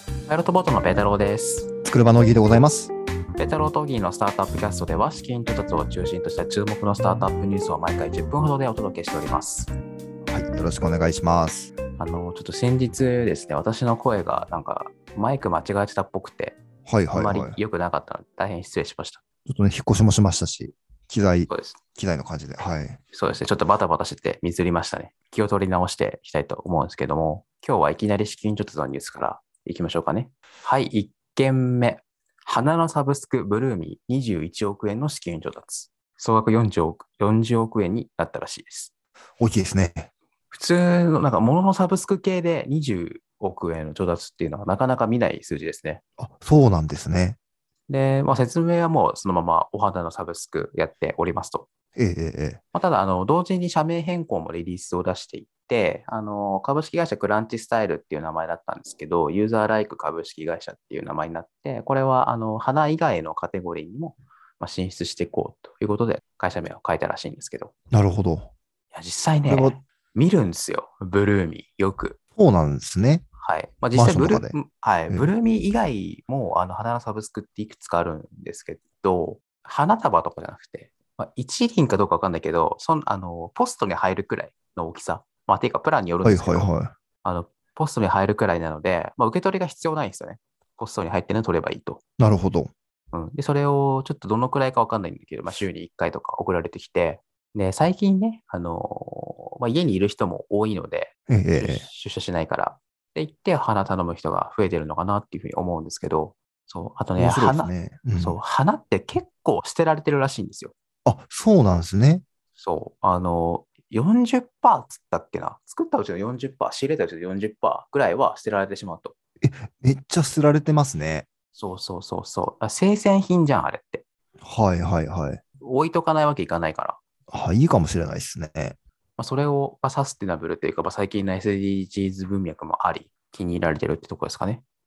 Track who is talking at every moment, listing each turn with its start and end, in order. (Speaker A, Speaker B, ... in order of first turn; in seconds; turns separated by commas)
Speaker A: 0.3-1.7, Speaker B: 1.8-2.9, Speaker A: 3.4-9.7, Speaker B: 10.3-11.7, Speaker A: 12.0-16.6, Speaker B: 16.9-17.6, Speaker A: 17.1-19.2, Speaker B: 19.5-23.0, Speaker A: 21.5-21.8, Speaker A: 23.1-38.9, Speaker B: 39.4-40.1, Speaker A: 40.5-46.0, Speaker B: 46.2-47.4, Speaker A: 47.9-51.7, Speaker B: 52.0-52.6, Speaker A: 52.7-67.7, Speaker B: 67.9-68.5, Speaker A: 68.9-72.2, Speaker B: 69.5-69.8, Speaker B: 72.4-73.2, Speaker A: 73.4-86.7, Speaker B: 73.9-74.6, Speaker B: 86.2-86.9, Speaker A: 87.2-92.0, Speaker B: 92.2-92.7, Speaker A: 93.1-110.7, Speaker B: 101.3-101.9, Speaker B: 107.2-108.4, Speaker B: 111.0-112.2, Speaker A: 112.6-119.1, Speaker B: 119.4-121.3, Speaker A: 121.5-124.0, Speaker B: 124.4-125.4, Speaker A: 125.6-127.0, Speaker B: 127.3-128.8, Speaker A: 129.2-134.6